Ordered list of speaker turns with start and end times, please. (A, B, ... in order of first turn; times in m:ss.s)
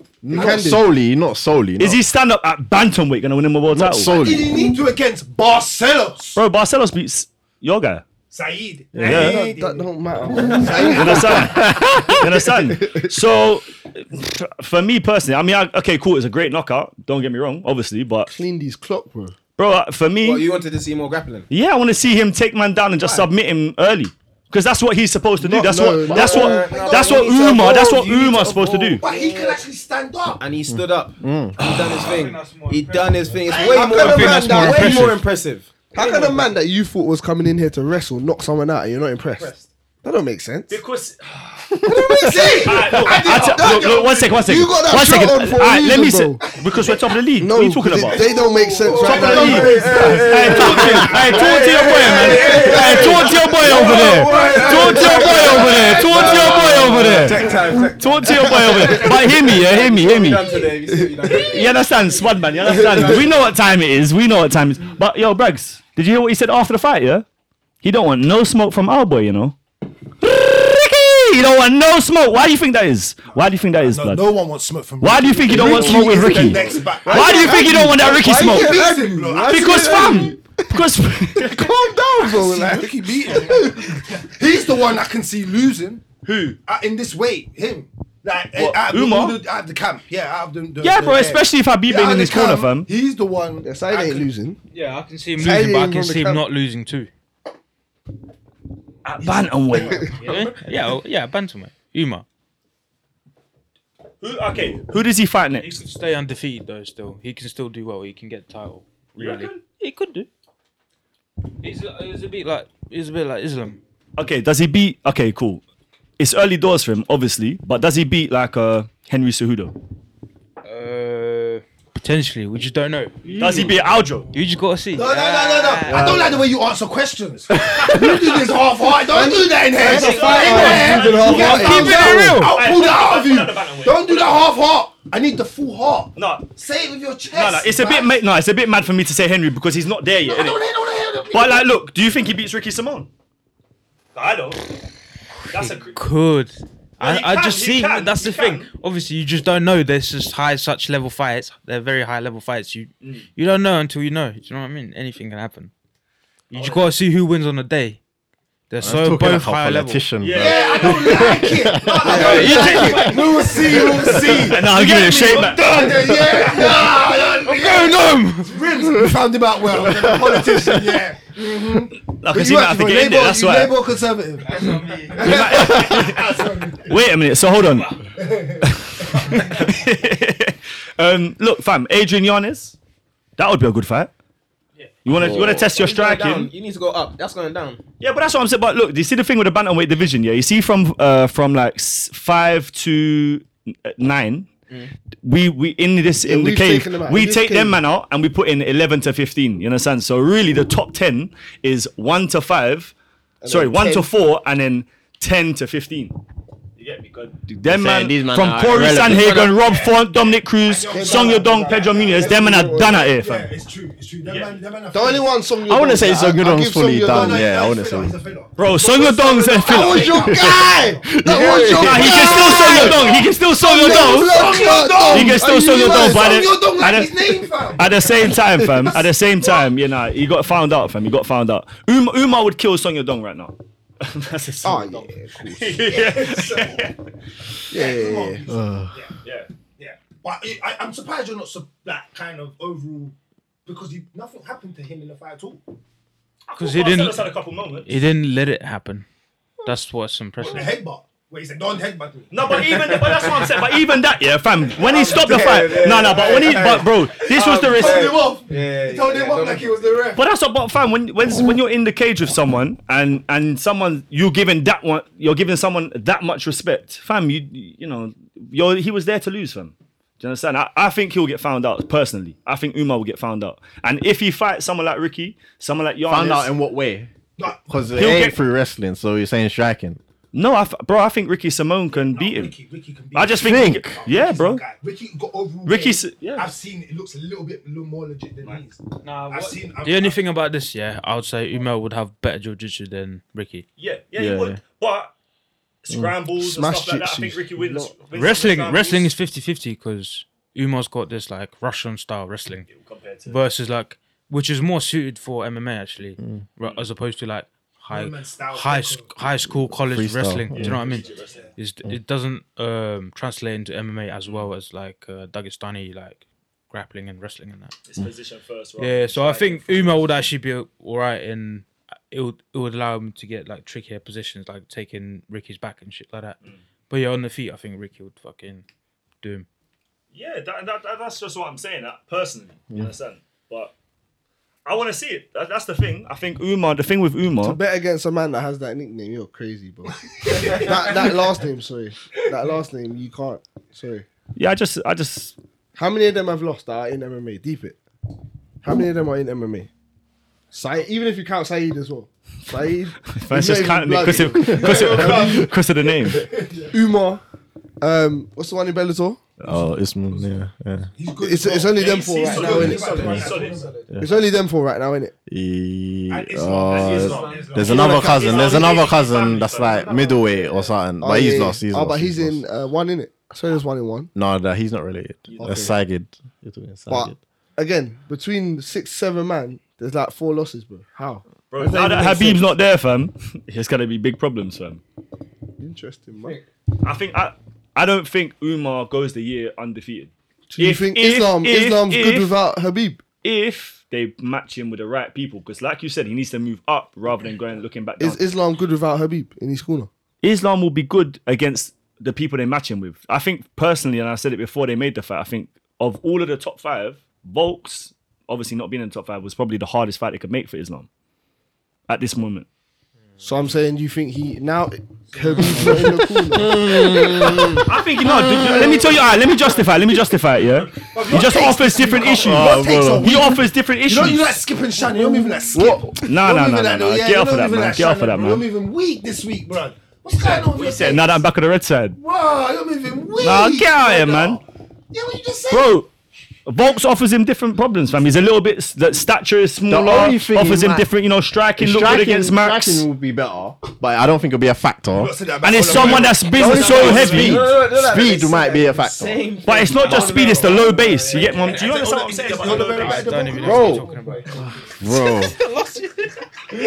0:00.2-0:02.0 A
0:00.2-0:00.8 B
0:01.8-0:04.2 C
0:03.7-0:04.8 A
0:04.1-0:06.4 D
0:06.4-0:08.0 C
0:08.3-0:11.6 D
0:09.0-0:09.3 A
0:09.0-0:09.4 C
0:09.0-0:11.6 B
0:10.7-0:18.4 C
0:11.4-0:12.7 A
0:18.3-0:19.4 B
0:19.6-0:20.5 C
0:20.2-0:21.5 E
0:21.5-0:29.0 C
0:25.4-0:26.8 B
0:26.1-0:29.6 E
0:26.3-0:27.3 D
0:29.0-0:30.4 D
0:30.4-0:36.5 E
0:30.7-0:31.6 A
0:31.9-0:35.2 F
0:33.5-0:34.4 D
0:33.8-0:35.2 B
0:35.9-0:40.8 B
0:39.3-0:39.7 E
0:40.7-0:41.8 C
0:41.8-0:46.6 B
0:41.9-0:44.5 D
0:42.6-0:48.3 C
0:46.5-0:47.1 D
0:47.4-0:51.4 B
0:48.1-0:57.6 D
0:48.1-1:01.8 E
0:49.0-1:00.6 C
0:52.1-0:56.0 B
0:56.9-0:57.3 F
1:01.3-1:07.3 C
1:02.6-1:03.4 E
1:07.8-1:09.6 C
1:10.2-1:14.3 C
1:13.8-1:20.3 D
1:15.0-1:18.8 C
1:15.5-1:17.9 B
1:17.1-1:20.3 E
1:19.4-1:22.0 C
1:19.8-1:20.8 B
1:21.4-1:24.0 B
1:22.3-1:26.0 D
1:26.2-1:26.6 C
1:26.6-1:34.3 D
1:28.6-1:29.4 C
1:30.8-1:32.9 C
1:33.6-1:34.6 B
1:34.7-1:37.1 F
1:35.4-1:36.4 B
1:39.0-1:40.3 C
1:39.2-1:40.4 D
1:40.2-1:42.3 F
1:44.2-1:45.7 C
1:45.5-1:50.3 F
1:49.2-1:49.6 C
1:51.6-1:53.8 F
1:54.2-1:55.6 C
1:56.2-1:59.8 C
2:00.6-2:03.2 F
2:03.2-2:03.8 A
2:03.4-2:04.3 C
2:04.3-2:06.1 F
2:04.9-2:18.2 D
2:05.9-2:06.4 A
2:09.1-2:12.5 B
2:09.8-2:14.4 C
2:10.0-2:10.8 E
2:10.3-2:12.6 F
2:16.2-2:16.5 C
2:17.3-2:20.6 C
2:20.2-2:21.7 D
2:21.3-2:23.1 C
2:24.2-2:24.8 C
2:25.5-2:26.1 C
2:25.5-2:35.7 F
2:27.0-2:28.7 C
2:33.0-2:33.3 C
2:36.5-2:38.0 F
2:36.5-2:36.8 C
2:38.7-2:40.0 F
2:38.8-2:43.2 A
2:40.2-2:41.4 C
2:40.3-2:57.0 D
2:42.0-2:43.4 F
2:42.0-2:44.2 B
2:42.1-2:42.8 C
2:44.0-2:46.4 C
2:46.2-2:46.9 B
2:47.4-2:48.6 F
2:49.7-2:51.0 A
2:52.1-2:53.8 C
2:54.4-2:55.6 F
2:55.1-2:58.0 C
2:57.7-2:58.0 F
2:58.2-2:59.6 D
2:58.6-3:02.8 C
3:03.4-3:04.1 C
3:05.0-3:06.5 C
3:05.2-3:07.8 E
3:05.2-3:05.6 A
3:08.0-3:14.5 C
3:15.2-3:22.9 C
3:16.2-3:17.8 B
3:23.5-3:24.0 B
3:23.5-3:26.2 C
3:23.5-3:23.8 E
3:26.8-3:33.5 C
3:27.7-3:29.6 A
3:29.4-3:30.0 D
3:30.6-3:35.3 D
3:30.9-3:33.1 B
3:32.1-3:32.8 E
3:34.2-3:34.6 C
3:34.9-3:37.5 B
3:35.7-3:38.1 A
3:37.0-3:41.1 D
3:38.6-3:40.5 C
3:39.6-3:46.4 B
3:40.3-3:42.9 A
3:41.7-3:57.0 C
3:42.0-3:49.7 D
3:54.6-3:55.8 B
3:55.8-3:56.9 D
3:57.7-3:58.4 B
3:57.7-3:59.2 D
3:58.5-3:59.1 A
3:59.2-3:59.5 C
3:59.8-4:03.2 D
4:03.7-4:05.6 D
4:06.5-4:08.0 C
4:06.6-4:07.3 F
4:07.8-4:09.1 F
4:09.6-4:10.7 F
4:10.4-4:13.0 D
4:12.3-4:18.2 C
4:12.5-4:13.5 E
4:14.6-4:16.2 D
4:14.9-4:20.1 E
4:17.3-4:20.2 D
4:20.2-4:36.5 C
4:36.1-4:37.1 A
4:37.4-4:38.3 D
4:37.6-4:40.0 A
4:38.0-4:38.4 C
4:40.3-4:42.5 C
4:41.9-4:50.2 D
4:43.2-4:44.6 C
4:43.4-4:44.0 A
4:45.7-4:46.5 C
4:49.0-4:53.7 F
4:53.8-4:55.1 C
4:54.2-4:54.6 A
4:55.8-4:59.1 C
4:55.9-4:56.2 A
4:56.4-4:57.9 B
4:58.1-5:02.7 F
5:02.7-5:03.4 C
5:03.3-5:17.8 F
5:06.2-5:06.4 A
5:07.9-5:09.2 D
5:09.6-5:10.8 A
5:10.5-5:11.5 C
5:10.9-5:11.6 D
5:17.9-5:20.3 C
5:18.8-5:26.4 F
5:26.9-5:28.6 F
5:29.2-5:29.5 F
5:30.1-5:33.7 C
5:34.6-5:37.6 C
5:37.4-5:44.1 B
5:40.2-5:41.0 D
5:44.4-5:45.4 C
5:45.8-5:47.8 B
5:48.6-5:49.7 B
5:50.5-5:55.5 B
5:53.2-5:56.3 C
5:54.4-5:56.8 D
5:54.4-5:54.7 A
5:56.7-5:57.2 B
5:57.8-5:59.2 B
5:59.4-6:00.9 A
6:01.0-6:03.8 D
6:01.2-6:03.1 B
6:01.8-6:03.6 C
6:02.3-6:04.1 E
6:04.0-6:05.1 B
6:05.3-6:12.4 A
6:06.1-6:08.9 D
6:06.7-6:10.0 C
6:06.9-6:07.7 E
6:07.6-6:08.2 B
6:09.6-6:10.9 E
6:11.0-6:14.1 B
6:14.1-6:17.2 A
6:15.3-6:15.8 C
6:15.4-6:15.8 B
6:16.9-6:22.4 B
6:21.5-6:24.8 C
6:25.6-6:26.4 B
6:26.8-6:32.4 C
6:30.5-6:33.0 B
6:33.2-6:38.2 C
6:38.0-6:39.9 B
6:40.2-6:50.9 C
6:51.9-6:52.5 C
6:53.2-6:56.7 B
6:55.5-6:58.7 A
6:57.5-7:04.4 C
7:00.8-7:11.2 D
7:02.1-7:03.2 A
7:05.5-7:05.9 A
7:06.0-7:08.5 C
7:10.2-7:12.0 C
7:12.0-7:15.8 D
7:13.2-7:14.4 C
7:15.5-7:15.9 C
7:16.5-7:22.9 C
7:19.7-7:20.9 A
7:21.6-7:25.1 A
7:24.9-7:27.2 D
7:25.4-7:27.5 C
7:25.7-7:29.2 A
7:26.5-7:31.7 E
7:29.4-7:33.4 C
7:31.1-7:33.9 D
7:32.5-7:36.2 F
7:33.0-7:34.4 E
7:33.4-7:33.8 A
7:34.6-7:35.4 A